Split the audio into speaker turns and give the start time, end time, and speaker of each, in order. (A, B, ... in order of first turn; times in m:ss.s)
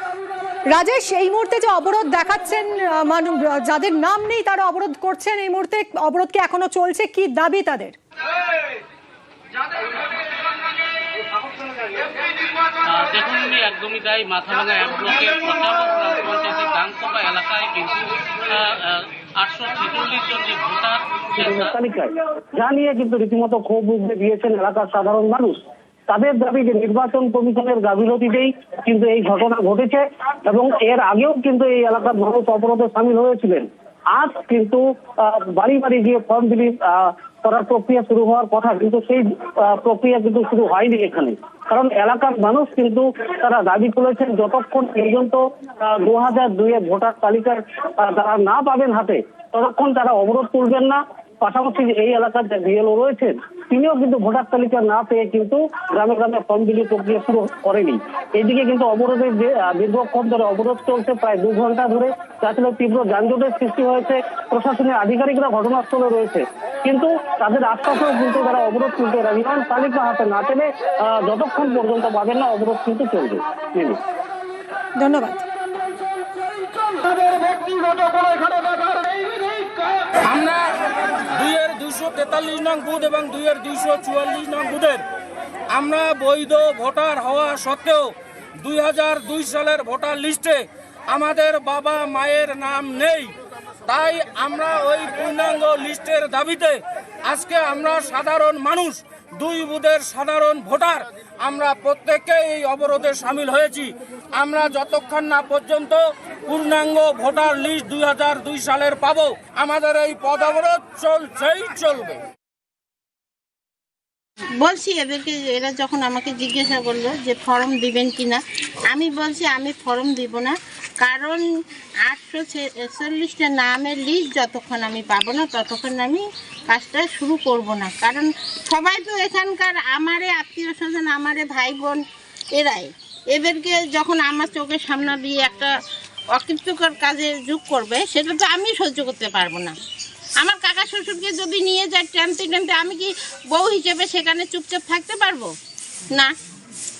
0:00.7-0:08.0 A
0:12.9-0:21.7 B
0:21.4-0:25.6 C
0:26.1-1:14.0 C
1:15.0-1:15.4 A
1:20.2-1:20.8 D
1:21.3-1:25.0 D
1:25.7-1:33.3 D
1:33.8-1:52.2 D
1:54.6-2:01.4 E
2:02.0-2:12.0 E
2:12.6-2:15.7 E
2:16.3-2:19.7 E
2:20.4-2:25.5 E